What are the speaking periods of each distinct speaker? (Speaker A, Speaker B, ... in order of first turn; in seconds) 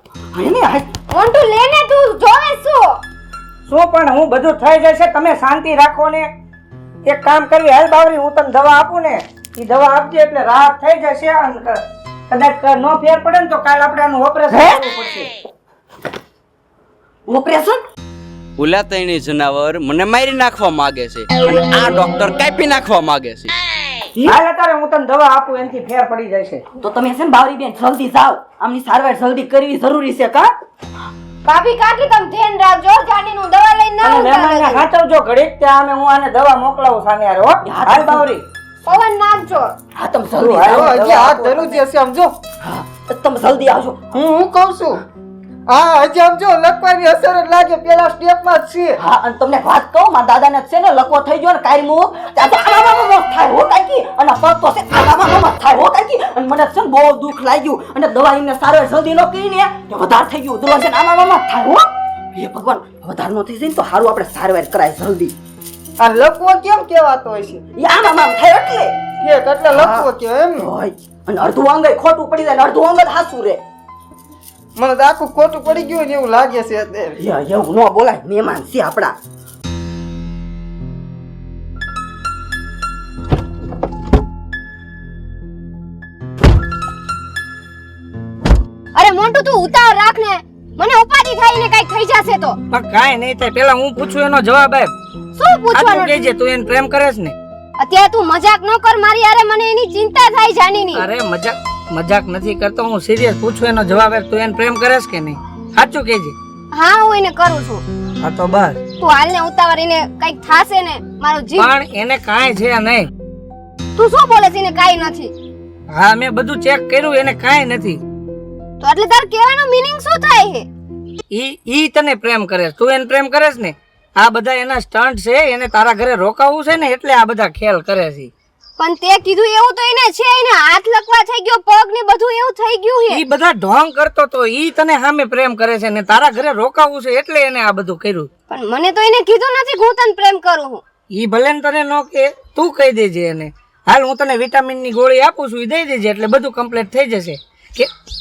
Speaker A: 0.3-0.9, 14.5-14.8, 17.3-17.8, 26.8-30.5, 37.6-38.3, 40.0-41.1, 42.6-44.1, 49.0-65.3, 67.7-69.0, 69.7-73.6, 77.2-79.1
Speaker B: 1.1-3.0, 31.4-34.8, 38.9-39.7, 88.9-92.6, 95.3-96.2, 97.8-101.0, 106.7-107.8, 109.0-111.7, 114.0-115.3, 118.8-120.7, 128.8-133.2, 138.5-140.8
Speaker C: 3.7-6.3, 7.0-15.3, 24.2-26.6, 34.0-38.4, 40.4-41.8, 92.7-94.9, 95.7-97.3, 100.9-106.3, 108.2-108.8, 111.5-113.1, 115.9-118.0, 121.3-128.3, 133.1-138.3, 141.1-147.9
Speaker D: 18.6-23.5
Speaker E: 40.6-42.3, 44.1-45.0, 45.7-49.0, 66.0-67.6, 69.2-70.6, 74.8-77.2